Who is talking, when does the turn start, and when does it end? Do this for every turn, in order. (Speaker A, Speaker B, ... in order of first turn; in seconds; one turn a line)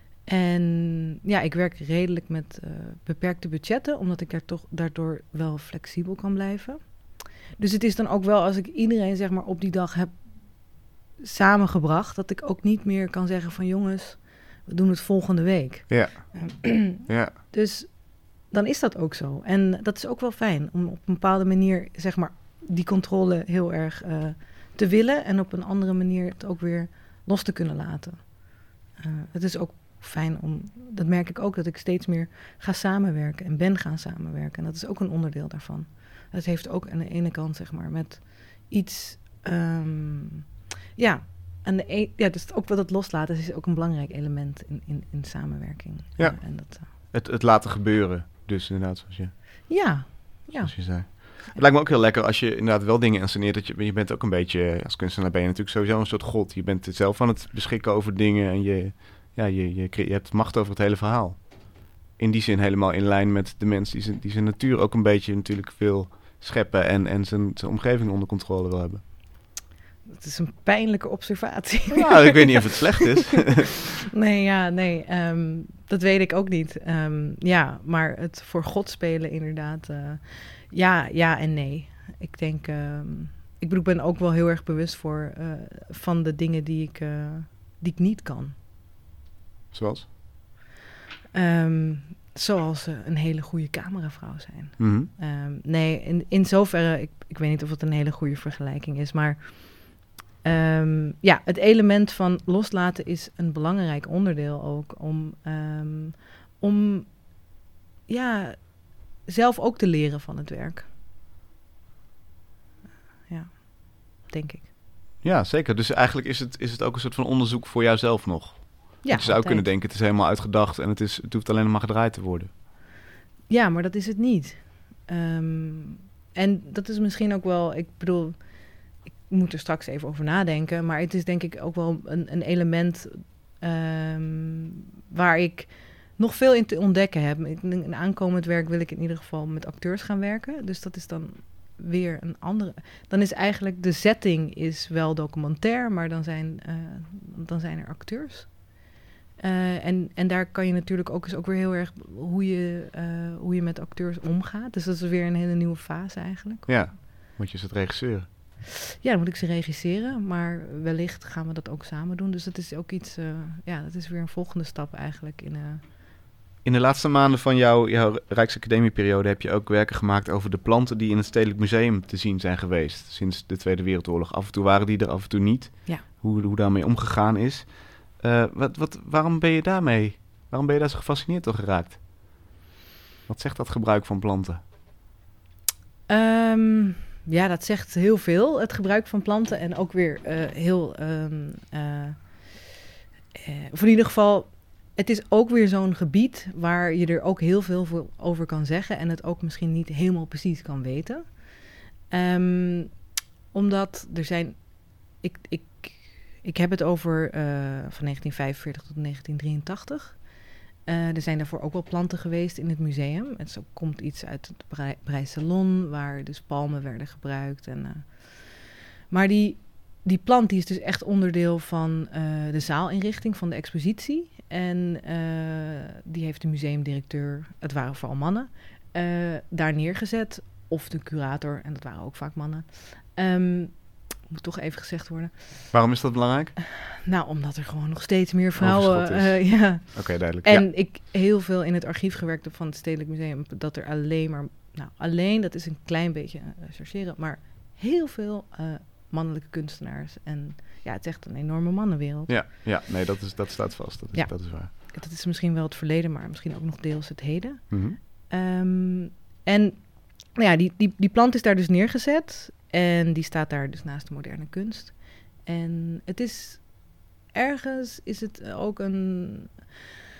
Speaker A: 0.3-46.9
Speaker B: 15.9-17.4
Speaker B: 46.2-49.4
Speaker A: 49.7-51.4
Speaker B: 50.6-69.0
Speaker A: 70.1-72.6
Speaker B: 71.9-73.8
Speaker A: 74.1-88.5
Speaker B: 89.7-90.1
Speaker A: 91.3-107.5
Speaker B: 94.8-95.1
Speaker A: 108.1-110.9
Speaker A: 113.3-114.7
Speaker B: 115.2-122.5
Speaker A: 119.0-119.7
Speaker A: 123.5-148.9
Speaker A: 149.4-156.7
Speaker B: 156.7-158.3
Speaker A: 159.0-165.8
Speaker B: 166.6-182.3
Speaker B: 183.3-184.6
Speaker A: 186.1-192.6
Speaker A: 193.3-235.7
Speaker B: 235.7-236.5
Speaker A: 237.0-252.3
Speaker B: 238.6-240.7
Speaker B: 252.3-254.7
Speaker A: 254.1-269.7
Speaker B: 257.7-258.0